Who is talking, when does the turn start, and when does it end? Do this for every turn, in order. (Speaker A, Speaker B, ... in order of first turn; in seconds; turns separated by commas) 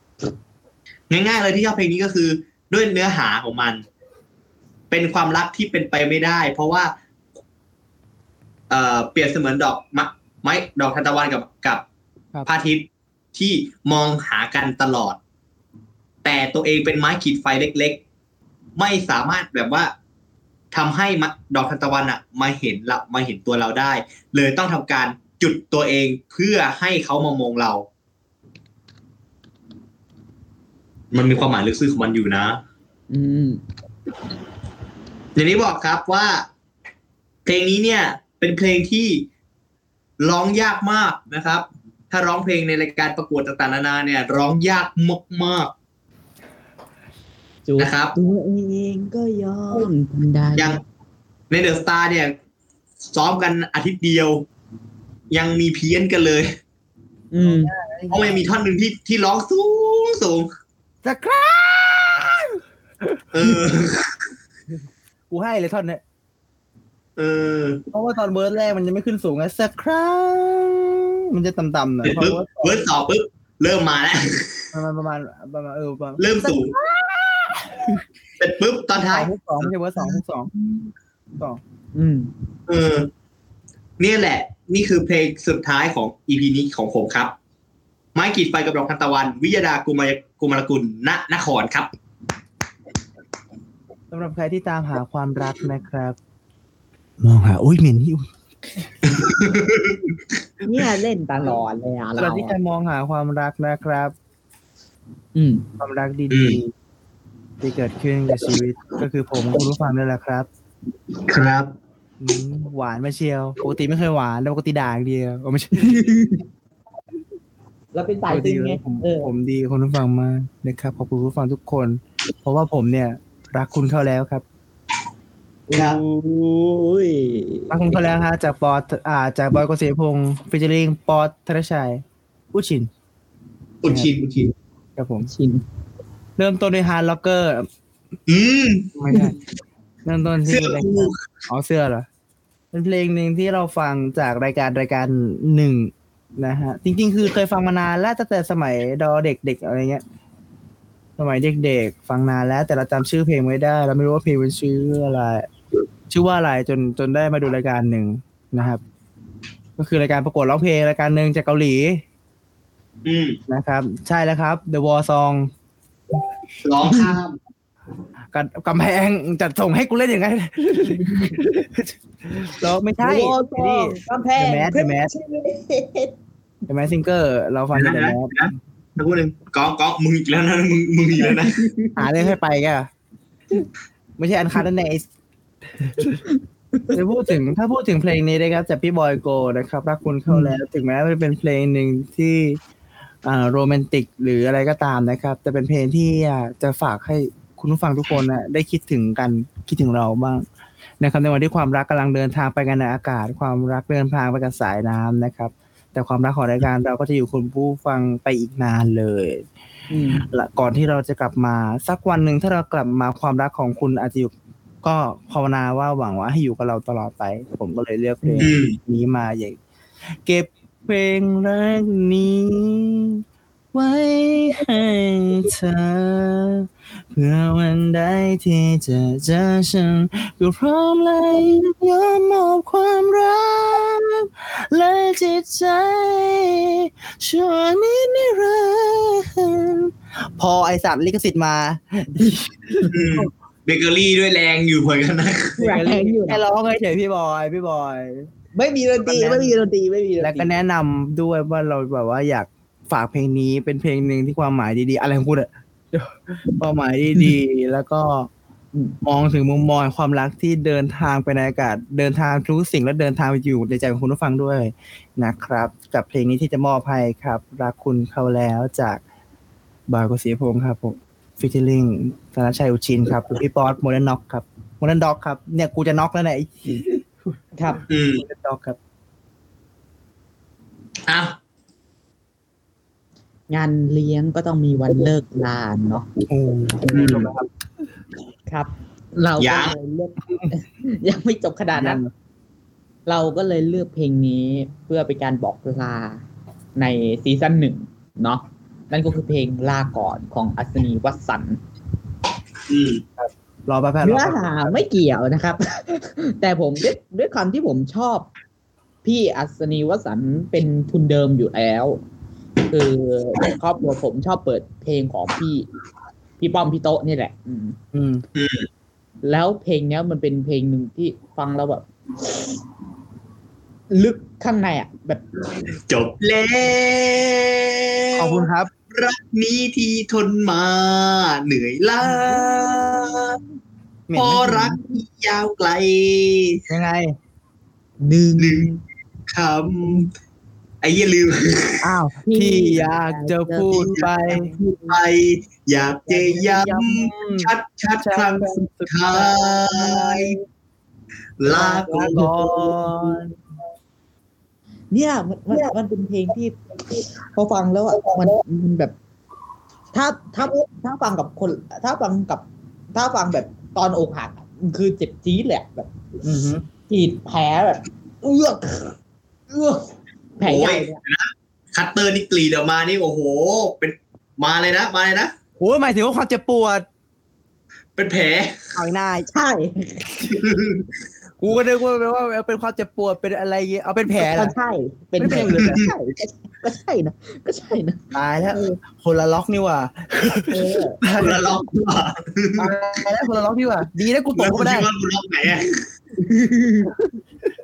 Speaker A: 1.1-3.8, Speaker A: 4.9-6.9, Speaker A: 8.7-11.8, Speaker A: 12.5-15.2, Speaker A: 16.2-18.0, Speaker A: 18.8-19.9, Speaker A: 20.7-27.9, Speaker A: 31.1-32.6, Speaker B: 33.1-33.6, Speaker A: 35.4-36.5, Speaker A: 37.5-39.3, Speaker A: 40.2-45.7, Speaker B: 47.7-50.8, Speaker A: 47.8-48.1, Speaker A: 51.5-52.3, Speaker A: 53.1-54.5, Speaker A: 55.3-56.5, Speaker B: 57.3-57.7, Speaker C: 57.4-58.4, Speaker A: 58.1-60.5, Speaker C: 61.0-62.6, Speaker C: 63.1-63.5, Speaker A: 63.3-64.1, Speaker C: 65.3-66.0, Speaker A: 67.2-67.8, Speaker C: 67.9-72.8, Speaker A: 72.0-74.7, Speaker C: 74.7-78.0, Speaker A: 76.2-76.8, Speaker A: 78.4-79.7, Speaker C: 79.1-80.5, Speaker B: 82.0-82.3, Speaker A: 82.7-83.1, Speaker A: 84.0-87.3, Speaker A: 88.2-91.9, Speaker C: 94.1-96.2, Speaker C: 97.2-98.3, Speaker A: 99.1-100.0, Speaker B: 100.6-102.6, Speaker C: 102.2-104.1, Speaker B: 105.3-105.7, Speaker C: 105.8-106.7, Speaker A: 106.3-106.6, Speaker C: 107.6-110.5, Speaker A: 111.3-111.7, Speaker C: 112.2-116.1, Speaker B: 115.9-116.4, Speaker B: 117.9-119.3, Speaker C: 118.3-124.4, Speaker B: 125.7-128.0, Speaker A: 125.7-126.0, Speaker C: 127.7-132.9, Speaker A: 133.8-134.5, Speaker C: 133.8-134.1, Speaker C: 135.0-135.3, Speaker B: 135.2-135.6, Speaker C: 136.4-137.7, Speaker A: 138.3-138.9, Speaker C: 138.9-139.4, Speaker C: 140.1-142.1, Speaker A: 140.5-141.2, Speaker C: 142.7-150.0, Speaker C: 151.2-155.5, Speaker C: 156.1-158.8, Speaker C: 159.8-162.0, Speaker A: 163.1-163.4, Speaker C: 163.5-165.5, Speaker A: 166.6-167.4, Speaker C: 168.3-175.1, Speaker B: 170.8-171.4, Speaker B: 173.0-176.1, Speaker C: 176.7-178.4, Speaker A: 177.7-181.6, Speaker B: 181.2-182.3, Speaker C: 182.0-182.9, Speaker C: 184.2-185.1, Speaker C: 185.8-186.2, Speaker C: 186.9-192.6, Speaker B: 190.3-190.6, Speaker C: 193.2-200.4, Speaker C: 201.0-209.5, Speaker B: 209.9-210.2, Speaker C: 210.3-214.3, Speaker C: 214.8-219.6, Speaker B: 218.2-218.5, Speaker A: 218.4-218.8, Speaker C: 220.2-243.3, Speaker B: 242.2-242.9, Speaker A: 242.9-245.6, Speaker B: 245.6-246.4, Speaker C: 245.6-248.3, Speaker B: 248.6-250.5, Speaker C: 249.1-249.5, Speaker C: 250.2-258.3, Speaker C: 259.0-269.0, Speaker C: 269.9-277.1, Speaker B: 277.6-277.8, Speaker A: 277.9-278.2, Speaker C: 277.9-278.8, Speaker A: 281.1-281.4, Speaker B: 283.5-286.1, Speaker C: 286.3-287.5, Speaker A: 286.9-287.3, Speaker B: 288.5-292.0, Speaker A: 289.4-289.8, Speaker C: 291.7-292.1, Speaker B: 293.1-296.2, Speaker B: 296.8-301.6, Speaker A: 302.7-303.0, Speaker C: 303.2-304.8, Speaker B: 304.0-308.3, Speaker B: 309.0-312.0, Speaker B: 312.7-315.7, Speaker B: 316.4-317.8, Speaker C: 317.9-318.2, Speaker A: 318.4-318.7, Speaker B: 319.2-322.5, Speaker B: 323.9-325.2, Speaker A: 325.9-333.4, Speaker C: 328.2-328.7, Speaker B: 332.1-333.3, Speaker C: 334.1-334.8, Speaker A: 334.1-336.6, Speaker C: 336.7-337.2, Speaker B: 338.0-338.8, Speaker A: 338.4-338.7, Speaker A: 339.3-340.1, Speaker A: 340.8-341.8, Speaker C: 341.8-344.5, Speaker B: 342.2-345.0, Speaker A: 344.6-350.4, Speaker B: 346.1-346.4, Speaker C: 346.4-350.4, Speaker A: 351.4-352.3, Speaker B: 351.5-353.2, Speaker C: 351.5-353.2, Speaker B: 354.9-356.6, Speaker B: 357.3-358.9, Speaker B: 359.9-365.9, Speaker C: 366.2-366.6, Speaker B: 366.9-368.9, Speaker B: 369.5-369.9, Speaker B: 370.4-371.0, Speaker A: 370.4-375.3, Speaker C: 375.6-376.9, Speaker A: 378.0-378.8, Speaker C: 378.8-379.3, Speaker B: 379.3-380.2, Speaker A: 380.3-380.9, Speaker C: 381.4-384.5, Speaker B: 384.2-388.0, Speaker C: 385.2-385.9, Speaker A: 385.6-385.8, Speaker C: 388.1-391.5, Speaker B: 390.5-391.0, Speaker A: 391.1-392.8, Speaker C: 392.6-394.9, Speaker A: 394.4-395.8, Speaker B: 396.2-396.9